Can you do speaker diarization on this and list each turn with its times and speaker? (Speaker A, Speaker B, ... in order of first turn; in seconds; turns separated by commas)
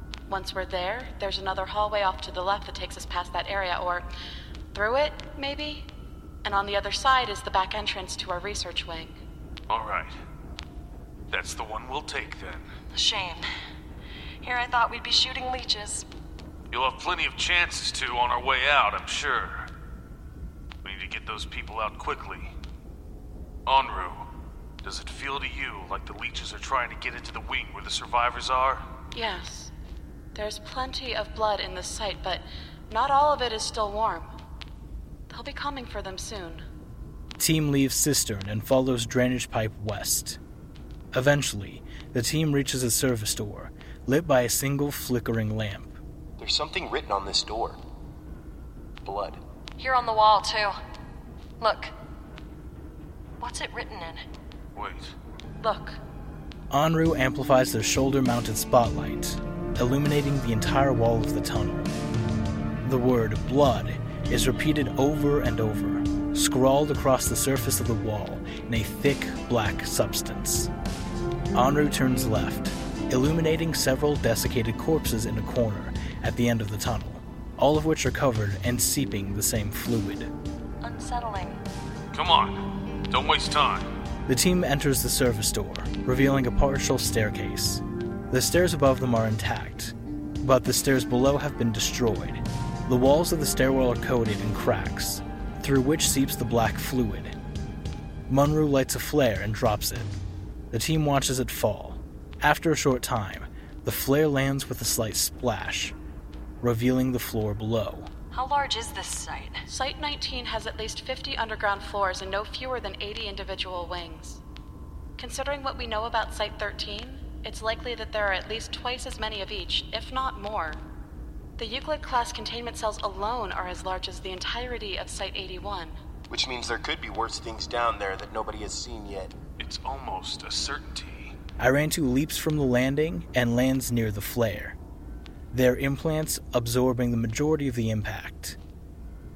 Speaker A: 0.3-4.1, Speaker A: 4.7-5.9, Speaker A: 6.4-9.2, Speaker B: 9.7-10.1, Speaker B: 11.3-12.7, Speaker C: 12.9-13.4, Speaker C: 14.4-16.1, Speaker B: 16.7-19.7, Speaker B: 20.8-22.5, Speaker B: 23.6-24.3, Speaker B: 24.8-28.8, Speaker A: 29.1-29.7, Speaker A: 30.3-34.3, Speaker A: 35.3-36.7, Speaker D: 37.4-40.4, Speaker D: 41.1-46.0, Speaker E: 46.4-47.8, Speaker E: 49.0-49.4, Speaker C: 49.8-50.8, Speaker C: 51.6-51.9, Speaker C: 53.4-54.2, Speaker B: 54.7-55.1, Speaker A: 55.6-56.0, Speaker D: 56.7-61.9, Speaker D: 62.8-70.7, Speaker D: 71.5-80.3, Speaker C: 80.8-81.6, Speaker B: 82.1-82.6, Speaker B: 83.1-83.8, Speaker D: 84.3-97.3, Speaker D: 98.3-100.1, Speaker D: 100.7-105.9, Speaker D: 106.6-108.1, Speaker C: 108.3-109.6, Speaker A: 109.7-114.4, Speaker A: 115.2-120.8, Speaker A: 121.6-126.0, Speaker E: 126.3-129.3, Speaker B: 129.6-131.3, Speaker D: 131.6-134.8, Speaker D: 135.5-138.6